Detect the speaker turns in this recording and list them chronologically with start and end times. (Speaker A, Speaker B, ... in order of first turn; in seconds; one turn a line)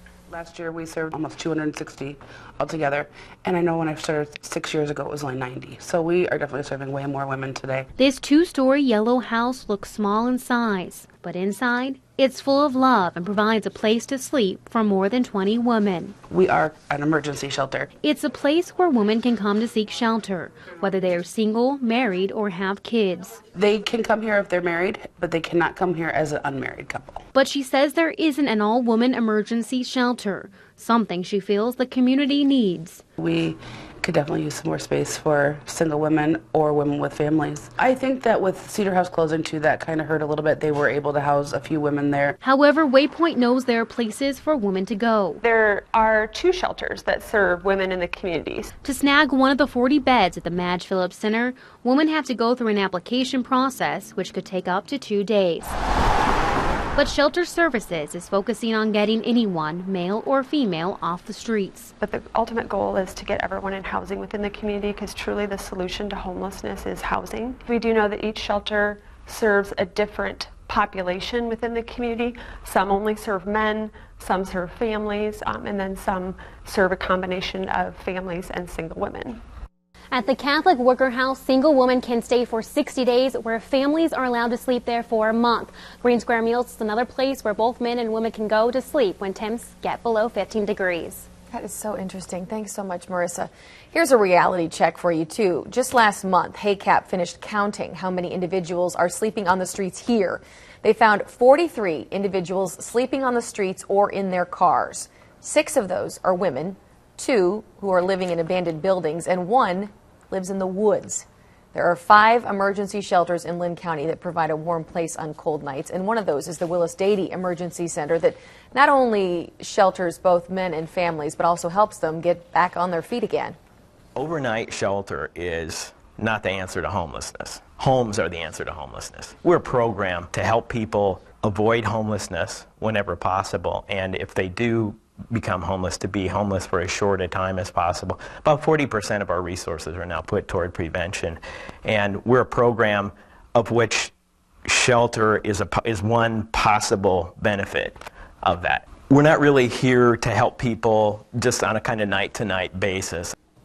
Speaker A: 0.3-7.9
Speaker B: 8.0-16.2
Speaker A: 16.3-17.9
Speaker B: 18.0-23.4
Speaker A: 23.5-27.2
Speaker B: 27.3-33.0
Speaker A: 33.2-42.4
Speaker B: 42.4-45.4
Speaker C: 45.4-48.7
Speaker B: 48.8-55.8
Speaker B: 57.0-61.9
Speaker C: 62.0-79.4
Speaker B: 80.1-91.3
Speaker D: 91.5-123.6
Speaker E: 124.2-144.1
Speaker E: 144.7-153.3